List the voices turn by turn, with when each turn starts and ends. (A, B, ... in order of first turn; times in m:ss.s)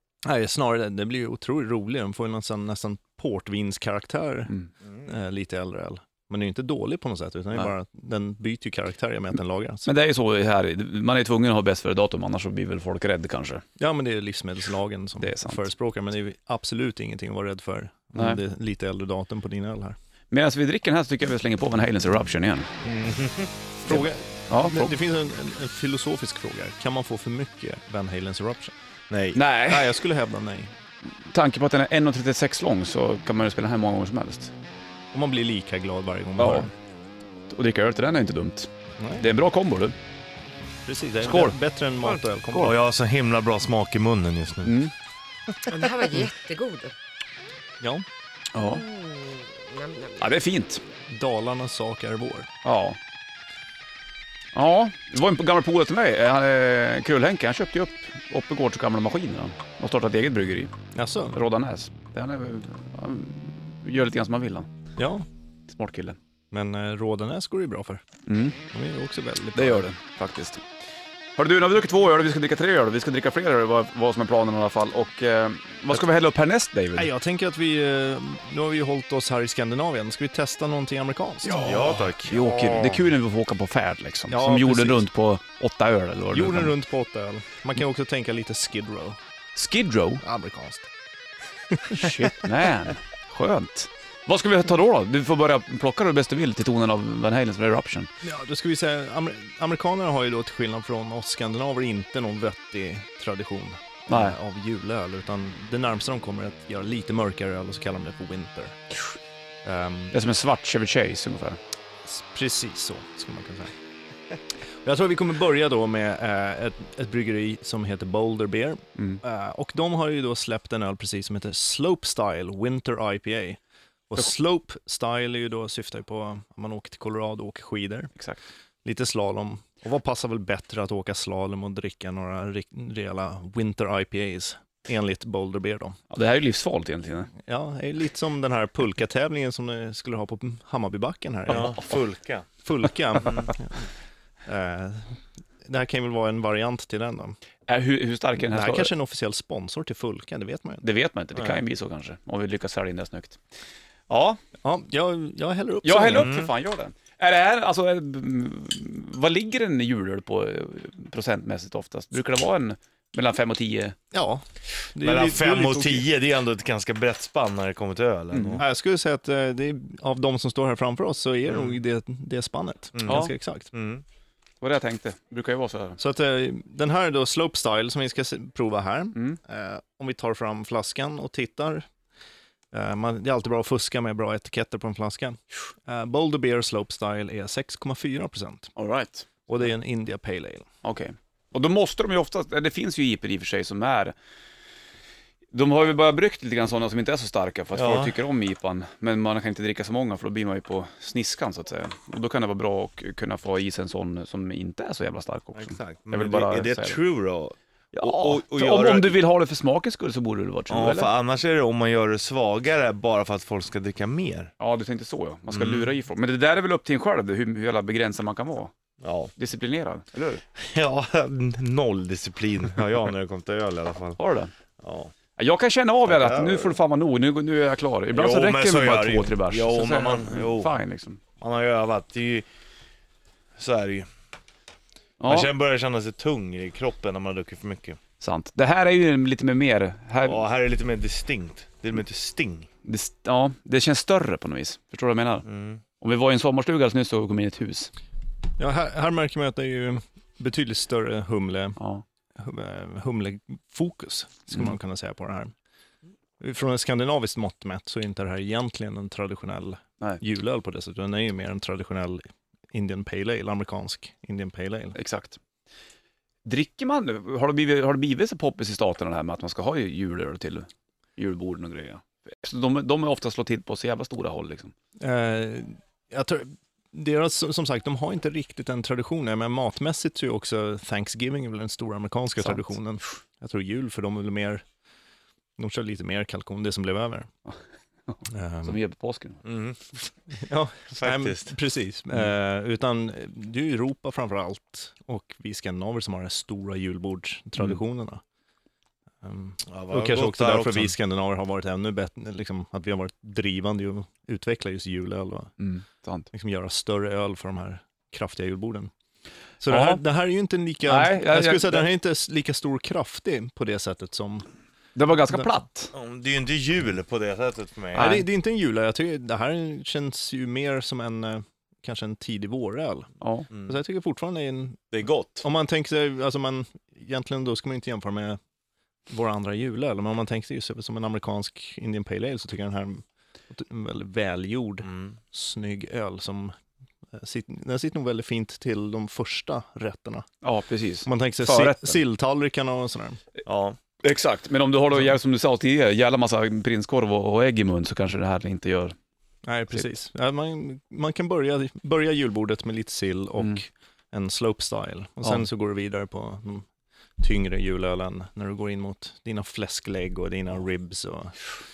0:00.2-0:09.9 A
0:09.8-0:13.6 B
0:13.8-0:20.0 A
0:15.2-0:15.6 B
0:20.3-0:22.7 B
0:22.8-0:23.5 C
0:23.8-0:28.7 A
0:23.8-0:24.9 B
0:29.1-0:29.4 C
0:29.3-0:29.9 B
0:29.6-0:30.7 A
0:31.2-0:34.5 B
0:35.1-0:36.7 A
0:36.4-0:36.7 B
0:37.5-0:39.9 B
0:39.0-0:39.3 A
0:40.8-0:42.8 A
0:41.2-0:41.6 B
0:42.5-0:44.7 C
0:44.6-0:44.9 B
0:45.7-0:46.9 D
0:47.8-0:48.0 A
0:48.5-0:48.9 B
0:48.8-0:50.2 D
0:50.2-0:50.8 B
0:51.1-0:52.5 A
0:52.6-0:53.0 B
0:54.5-1:00.7 B
1:00.9-1:01.4 A
1:01.3-1:04.7 B
1:05.0-1:05.2 A
1:05.7-1:06.2 B
1:06.5-1:08.0 A
1:08.3-1:08.6 B
1:08.7-1:09.9 A
1:09.5-1:10.6 B
1:11.4-1:17.1 B
1:17.0-1:22.2 A
1:21.4-1:26.7 B
1:21.5-1:23.0 C
1:24.3-1:25.0 A
1:26.3-1:29.2 A
1:29.5-1:30.2 B
1:30.2-1:30.9 A
1:31.8-1:32.3 A
1:31.9-1:38.1 B
1:38.2-1:49.0 A
1:44.1-1:44.4 B
1:49.6-1:50.1 A
1:50.1-1:51.6 B
1:52.0-1:53.7 A
1:54.8-2:08.1 A
2:08.8-2:16.0 A
2:16.1-2:17.3 B
2:17.5-2:21.9 A
2:21.5-2:22.4 C
2:22.6-2:23.9 A
2:23.2-2:23.5 C
2:24.4-2:27.4 A
2:27.7-2:28.9 B
2:28.4-2:30.8 A
2:30.8-2:33.4 B
2:31.4-2:31.6 C
2:34.1-2:34.4 B
2:34.6-2:36.3 A
2:35.8-2:43.9 B
2:36.1-2:36.5 C
2:44.1-2:44.4 A
2:44.9-2:46.1 A
2:45.0-2:48.6 C
2:48.3-2:48.6 B
2:48.6-2:53.7 A
2:51.5-2:51.8 C
2:53.0-2:54.0 C
2:53.1-2:53.3 B
2:54.6-2:56.0 B
2:56.0-3:01.8 A
3:02.7-3:08.7 A
3:08.8-3:09.3 B
3:09.5-3:10.6 A
3:10.8-3:14.1 B
3:15.5-3:27.0 B
3:17.7-3:18.1 C
3:25.5-3:29.2 C
3:27.9-3:31.1 B
3:30.7-3:34.5 C
3:34.6-3:38.7 B
3:35.5-3:35.9 C
3:39.0-3:39.3 C
3:39.4-3:40.4 B
3:40.6-3:44.2 C
3:44.2-3:44.5 B
3:44.8-3:45.1 C
3:45.4-3:51.2 B
3:46.1-3:46.8 C
3:48.1-3:50.7 C
3:51.4-3:52.5 C
3:53.6-3:54.1 C
3:55.2-3:55.5 B
3:55.2-3:58.0 C
3:58.2-4:00.4 B
4:00.2-4:02.7 C
4:02.8-4:05.4 B
4:05.4-4:05.8 C
4:06.0-4:07.9 B
4:08.6-4:11.8 A
4:11.8-4:12.0 B
4:12.4-4:15.5 A
4:16.4-4:22.2 A
4:22.7-4:25.0 A
4:25.0-4:25.4 B
4:26.4-4:34.7 B
4:35.0-4:44.6 A
4:45.6-4:47.3 A
4:48.1-4:49.4 B
4:48.3-4:48.8 A
4:49.4-4:49.8 C
4:50.3-4:58.2 A
4:51.0-4:51.5 C
4:59.2-5:05.5 A
4:59.7-5:00.9 C
5:05.6-5:06.3 B
5:06.3-5:08.9 A
5:09.6-5:14.4 A
5:09.7-5:10.0 B
5:10.8-5:11.9 B
5:15.0-5:15.9 B
5:15.9-5:18.1 C
5:18.0-5:23.1 A
5:18.0-5:18.2 B
5:23.2-5:23.5 B
5:23.6-5:28.4 A
5:24.9-5:25.4 C
5:29.1-5:36.5 A
5:34.8-5:35.1 C
5:37.1-5:40.3 A
5:40.4-5:42.0 B
5:41.0-5:43.2 A
5:43.4-5:43.8 C
5:44.0-5:48.9 B
5:49.4-5:56.6 A
5:57.2-6:01.5 A